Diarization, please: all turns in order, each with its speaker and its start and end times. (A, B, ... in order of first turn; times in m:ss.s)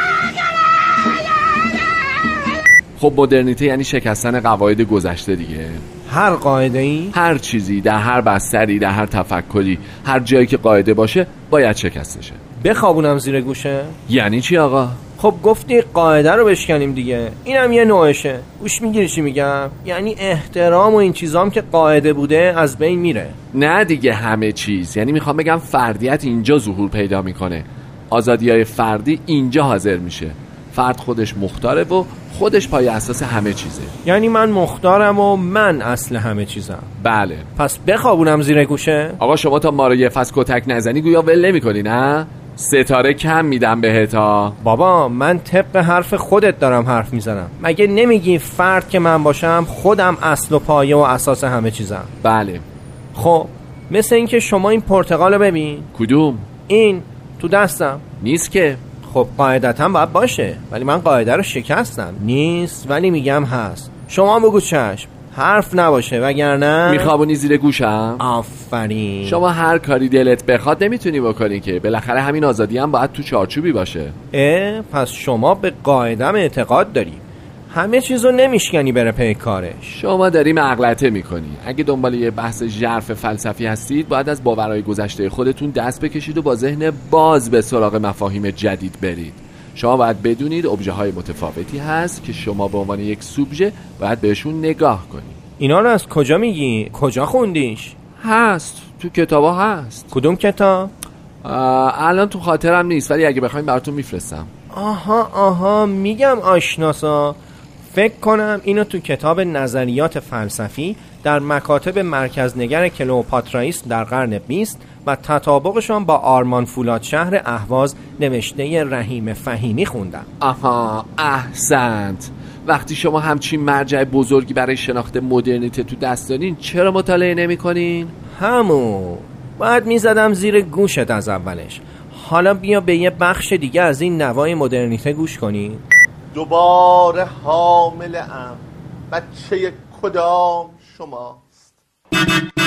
0:03.0-0:05.8 A
0:06.1-0:07.2 B
0:07.1-0:12.4 A
0:12.6-0:14.0 B
0:14.1-0:15.0 A
0:15.2-0:23.3 B
0:23.5-0:33.9 A
0:34.0-0:36.9 B
0:37.0-0:37.5 A
0:37.6-0:39.2 B
0:39.2-0:44.6 A
0:44.6-0:52.1 B
0:52.2-0:52.6 A
0:53.1-0:55.9 B
0:55.9-0:56.5 A
0:56.7-0:58.0 B
0:58.2-0:58.8 A
0:59.0-1:07.1 B
1:06.9-1:08.2 A
1:08.2-1:09.4 B
1:09.2-1:14.1 A
1:14.3-1:19.9 B
1:19.9-1:35.4 A
1:35.6-1:37.9 B
1:38.2-1:40.1 A
1:40.1-1:40.9 B
1:41.4-1:44.5 A
1:44.7-2:00.3 B
2:00.4-2:08.1 A
2:08.4-2:15.8 B
2:16.3-2:21.7 C